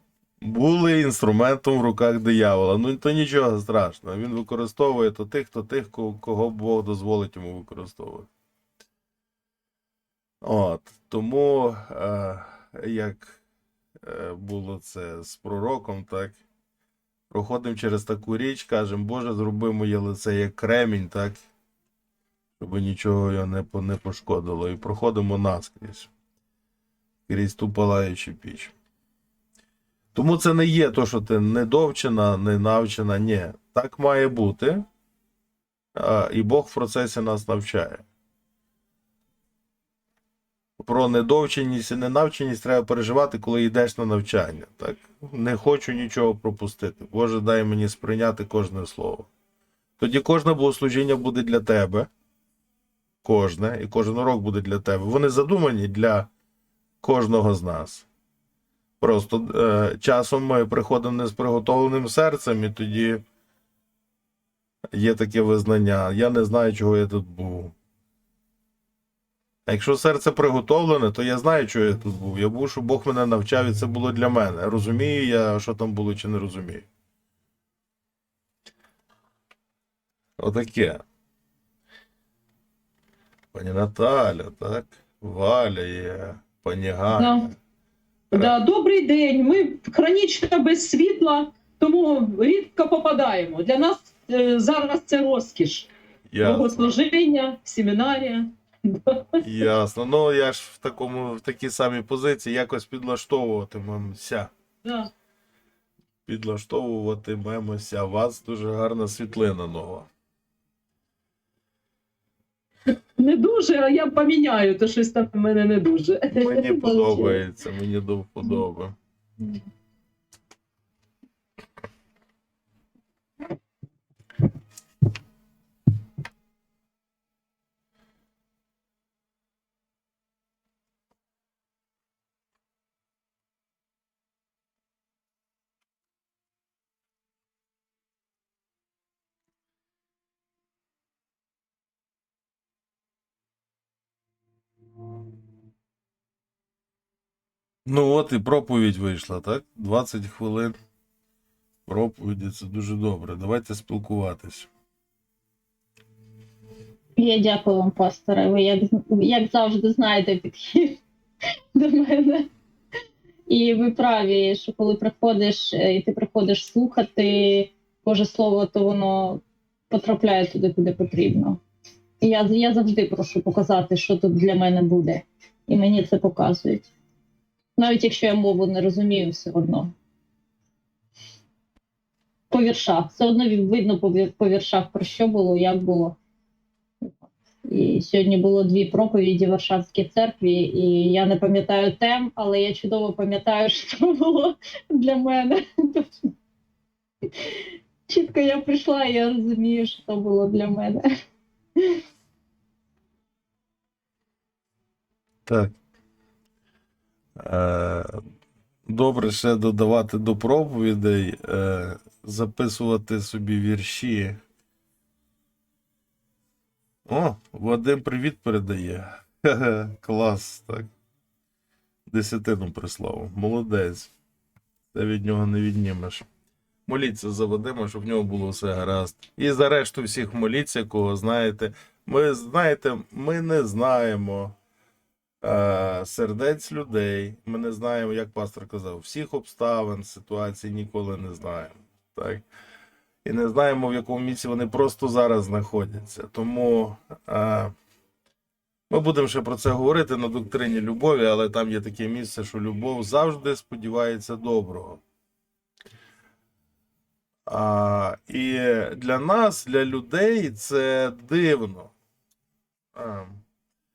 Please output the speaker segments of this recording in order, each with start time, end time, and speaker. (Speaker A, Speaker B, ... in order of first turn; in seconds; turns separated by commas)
Speaker A: 0.4-8.3, Speaker A: 10.4-13.4, Speaker A: 14.0-16.4, Speaker A: 17.3-21.4, Speaker A: 22.6-26.1, Speaker A: 27.3-28.7, Speaker A: 30.1-34.9, Speaker A: 35.9-38.0, Speaker A: 40.8-49.3, Speaker A: 50.0-52.1, Speaker A: 53.2-56.3, Speaker A: 57.0-58.0, Speaker A: 59.0-63.2, Speaker A: 64.9-67.7, Speaker A: 69.7-76.9, Speaker A: 80.4-81.0, Speaker A: 83.5-87.5, Speaker B: 87.2-87.5, Speaker B: 88.3-95.9, Speaker A: 96.3-96.9, Speaker B: 96.4-99.4, Speaker A: 99.4-104.5, Speaker B: 104.8-105.1, Speaker A: 106.2-110.1, Speaker B: 113.2-117.4, Speaker A: 116.3-118.9, Speaker A: 147.8-150.8, Speaker A: 151.8-154.7, Speaker C: 157.2-161.0, Speaker C: 161.7-162.5, Speaker C: 163.5-171.6, Speaker C: 172.2-176.9, Speaker C: 177.8-179.9, Speaker C: 182.5-186.2, Speaker C: 187.7-196.3, Speaker C: 197.3-201.1, Speaker C: 201.8-202.0, Speaker A: 205.4-205.7, Speaker A: 207.4-208.1, Speaker A: 208.8-214.4, Speaker A: 217.1-220.9, Speaker A: 222.1-224.1, Speaker A: 224.9-226.3, Speaker A: 226.9-234.6, Speaker A: 235.4-242.4, Speaker A: 243.2-247.7, Speaker A: 248.9-255.0, Speaker A: 257.5-261.9, Speaker A: 262.9-263.4